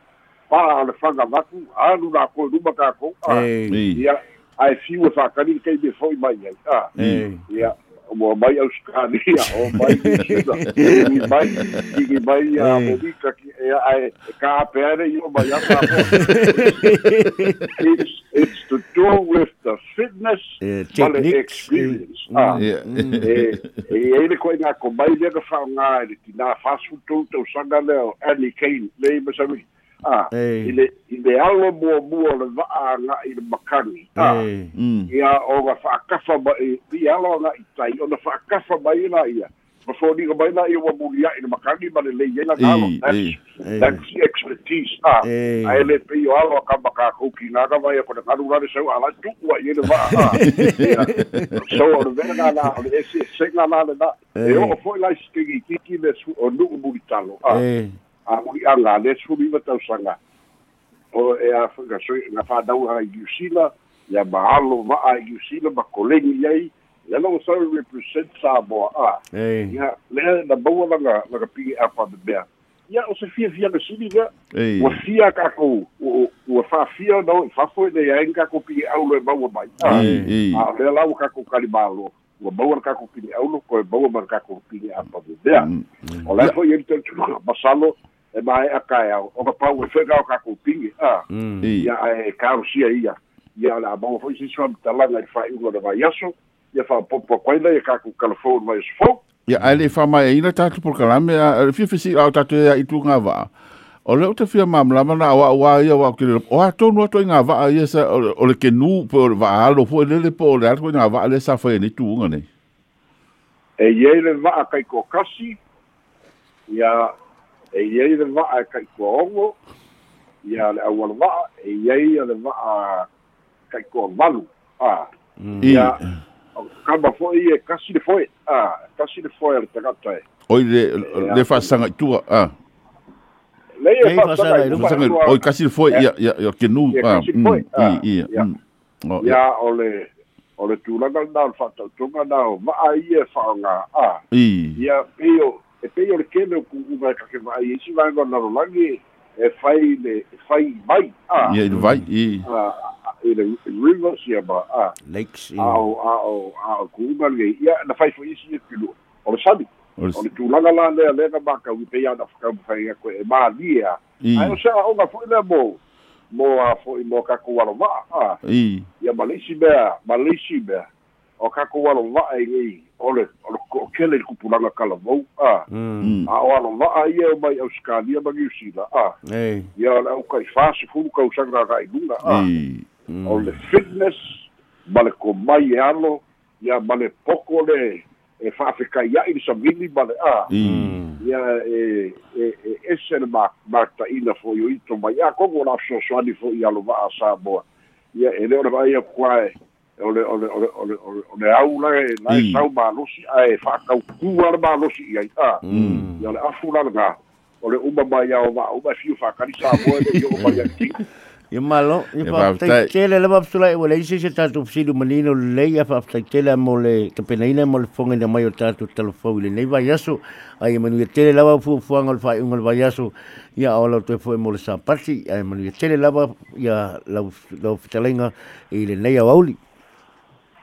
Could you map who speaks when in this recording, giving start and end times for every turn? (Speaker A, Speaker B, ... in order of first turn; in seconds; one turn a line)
Speaker A: 0.5-6.9
Speaker B: 3.3-3.8
Speaker C: 3.7-4.0
Speaker B: 7.0-7.4
Speaker C: 7.0-7.2
Speaker A: 7.5-16.7
Speaker B: 9.7-11.2
Speaker C: 10.8-11.8
Speaker B: 12.6-13.0
Speaker B: 15.9-17.8
Speaker A: 17.8-22.6
Speaker B: 20.6-23.4
Speaker C: 22.6-23.8
Speaker A: 23.2-34.5
Speaker B: 30.3-30.7
Speaker B: 34.2-34.7
Speaker C: 34.7-35.1
Speaker A: 35.1-57.6
Speaker C: 42.6-43.4
Speaker B: 43.6-44.0
Speaker B: 45.2-45.9
Speaker B: 50.0-51.6
Speaker C: 50.5-51.2
Speaker B: 54.4-54.8
Speaker B: 57.5-58.0
Speaker A: 58.3-60.1
Speaker A: 61.1-85.7
Speaker B: 69.3-69.8
Speaker C: 74.5-75.0
Speaker C: 79.8-80.6
Speaker B: 79.9-80.3
Speaker C: 85.5-85.8
Speaker A: 86.2-91.2
Speaker B: 91.3-91.7
Speaker C: 91.6-91.9
Speaker A: 91.8-99.2
Speaker C: 99.5-103.5
Speaker C: 104.0-112.5
Speaker A: 113.8-115.6
Speaker A: 116.7-117.1
Speaker A: 117.7-119.5
Speaker A: 120.4-123.1
Speaker A: 123.7-125.1
Speaker B: 125.4-125.9
Speaker C: 125.6-126.1
Speaker A: 125.6-126.0
Speaker A: 126.5-130.2
Speaker C: 130.5-132.5
Speaker A: 131.0-131.7
Speaker A: 133.8-136.1
Speaker B: 134.0-135.1
Speaker C: 134.7-139.4
Speaker A: 136.9-138.5
Speaker A: 139.2-144.2
Speaker C: 144.3-144.8
Speaker A: 144.8-151.6
Speaker C: 151.4-152.5
Speaker B: 151.7-152.0
Speaker A: 152.4-154.9
Speaker B: 155.1-155.8
Speaker A: 155.6-165.8
Speaker C: 164.2-164.6
Speaker A: 166.3-168.4
Speaker C: 168.4-168.9
Speaker A: 169.0-170.8
Speaker A: 171.4-175.7
Speaker B: 175.7-176.2
Speaker C: 176.0-176.3
Speaker A: 176.3-179.1
Speaker B: 179.3-179.7
Speaker A: 179.8-182.4
Speaker C: 182.2-182.8
Speaker B: 183.1-183.5
Speaker A: 183.2-190.5
Speaker C: 190.5-191.0
Speaker B: 190.6-191.2
Speaker A: 191.2-197.6
Speaker A: 198.2-205.6
Speaker C: 202.3-202.6
Speaker B: 205.6-206.3
Speaker C: 205.7-206.1
Speaker A: 206.2-211.0
Speaker B: 210.4-210.7
Speaker B: 211.5-229.6
Speaker C: 212.2-212.9